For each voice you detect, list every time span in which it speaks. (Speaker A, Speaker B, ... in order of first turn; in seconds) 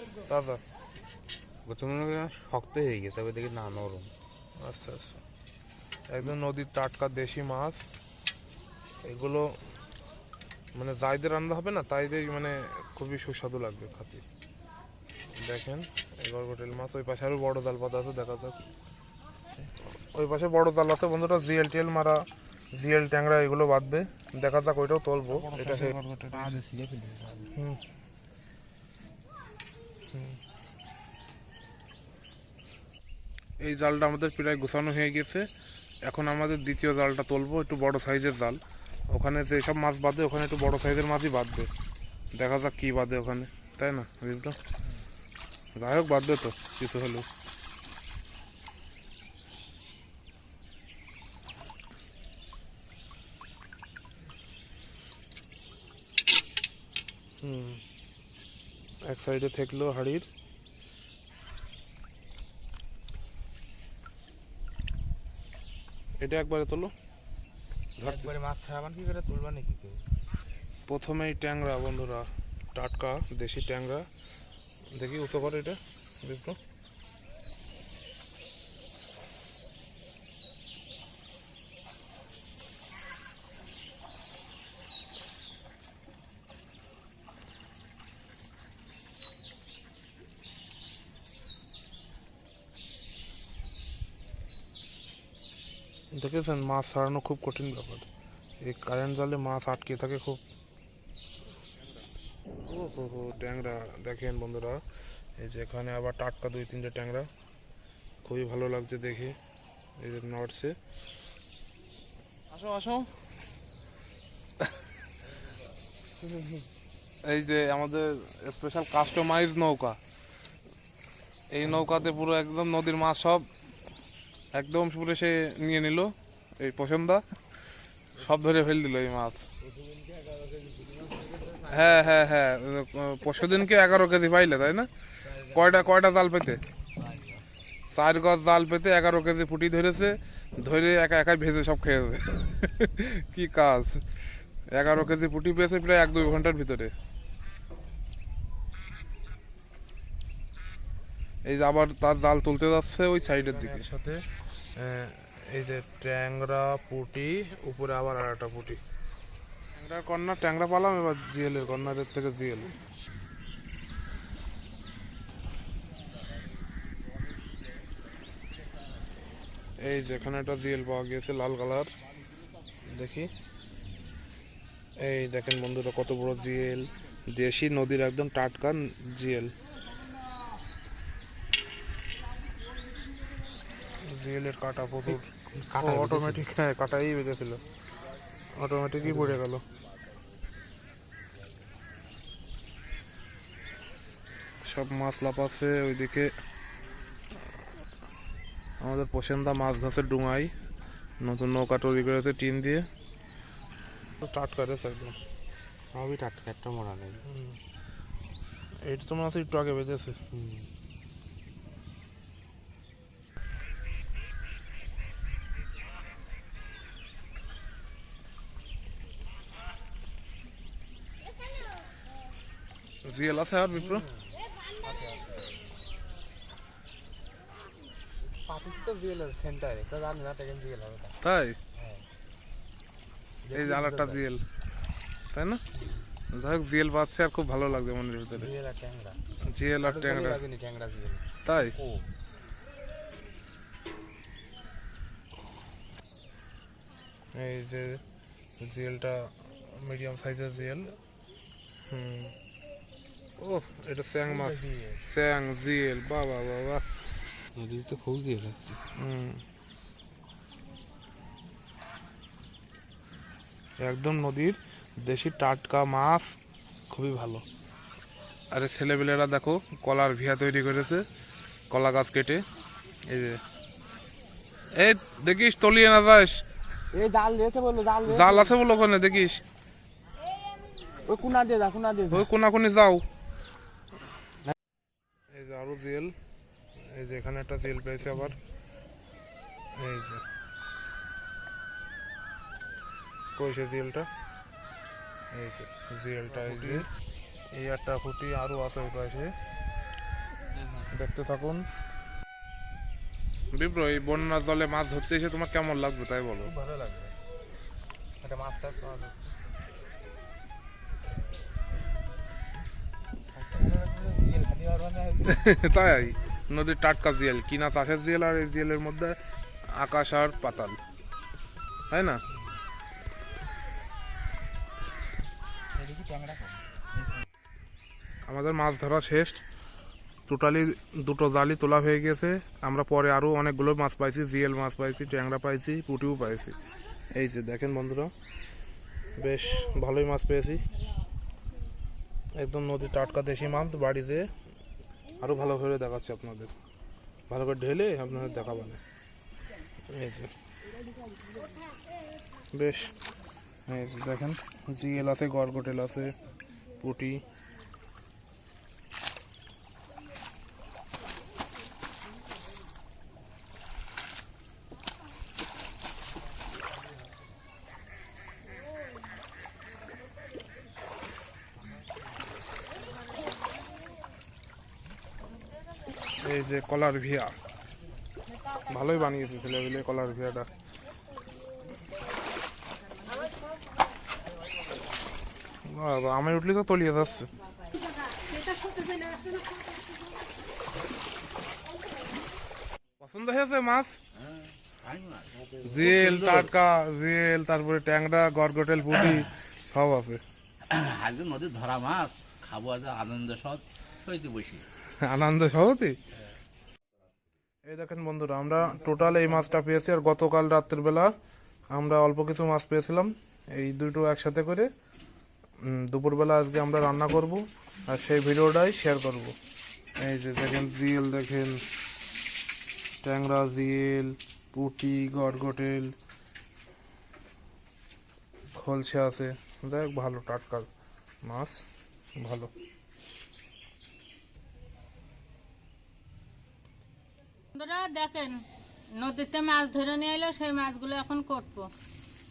Speaker A: 0.3-0.6, 4.6-5.2, 6.1-7.9, 9.0-9.5, 10.7-14.2, 15.3-18.6, 20.1-26.5, 30.1-30.4, 33.6-35.5, 36.0-41.7, 42.3-44.6, 45.8-47.3, 57.4-57.8, 59.0-60.3, 66.2-66.9, 68.0-68.3, 70.9-74.1, 74.9-76.6, 96.1-98.1, 98.6-100.4, 102.7-104.8, 105.4-107.3, 108.2-109.4, 110.0-110.8, 112.5-113.1, 117.2-120.0, 121.5-123.5, 124.5-127.2, 128.2-129.5, 131.7-134.9, 135.5-136.6, 137.9-144.1, 144.7-146.9, 151.4-158.8, 159.8-162.7, 169.8-171.9, 172.9-173.3, 175.0-179.5, 184.0-187.6, 188.6-189.6, 194.6-196.3, 198.8-200.5, 201.2-202.9, 204.2-205.2, 207.3-207.6, 208.8-210.2, 223.0-224.1, 231.2-231.6, 233.5-234.4, 235.3-235.6, 236.3-238.5, 239.4-240.4, 241.4-241.7, 247.3-248.0, 248.6-251.0, 251.9-252.4, 253.4-256.8, 259.0-259.4, 263.8-266.3, 266.9-267.4, 268.5-271.0, 271.7-272.4, 273.1-273.4, 274.8-276.4, 278.1-279.4, 282.1-283.0, 285.3-286.1, 286.8-288.4, 289.8-290.2, 293.4-294.1, 295.3-296.9, 297.5-299.3, 300.9-301.7, 303.5-306.5, 315.2-319.2, 319.7-320.8, 321.9-322.2, 328.3-329.4, 330.3-336.6, 337.1-338.1, 339.2-340.7, 342.4-344.3, 345.2-346.5, 347.3-348.8, 349.9-350.3, 352.5-352.9, 353.7-356.1, 356.8-357.2, 376.2-377.4, 378.6-380.5, 385.6-387.3, 393.0-394.0, 395.6-400.2, 404.9-406.0, 407.6-411.1, 411.7-414.7, 415.6-419.4, 420.0-421.6, 423.0-425.9, 428.5-430.7, 431.2-431.6, 432.2-432.5
Speaker B: 1.7-4.1, 25.3-27.5, 68.0-70.0, 116.2-116.6, 129.7-132.2, 135.3-135.6, 137.0-137.3, 153.3-153.9, 185.7-186.4, 189.1-189.4, 205.9-207.2, 210.3-210.7, 223.7-225.5, 228.2-231.2, 231.8-232.1, 233.4-234.2, 235.8-236.0, 238.3-239.2, 239.8-242.1, 254.3-255.0, 257.6-258.8, 276.9-278.6, 281.1-282.3, 296.4-296.8, 306.4-307.1, 308.2-309.3, 313.3-315.4, 325.7-326.8
Speaker C: 394.7-396.5, 400.7-404.6
Speaker D: 437.5-438.4, 438.9-441.7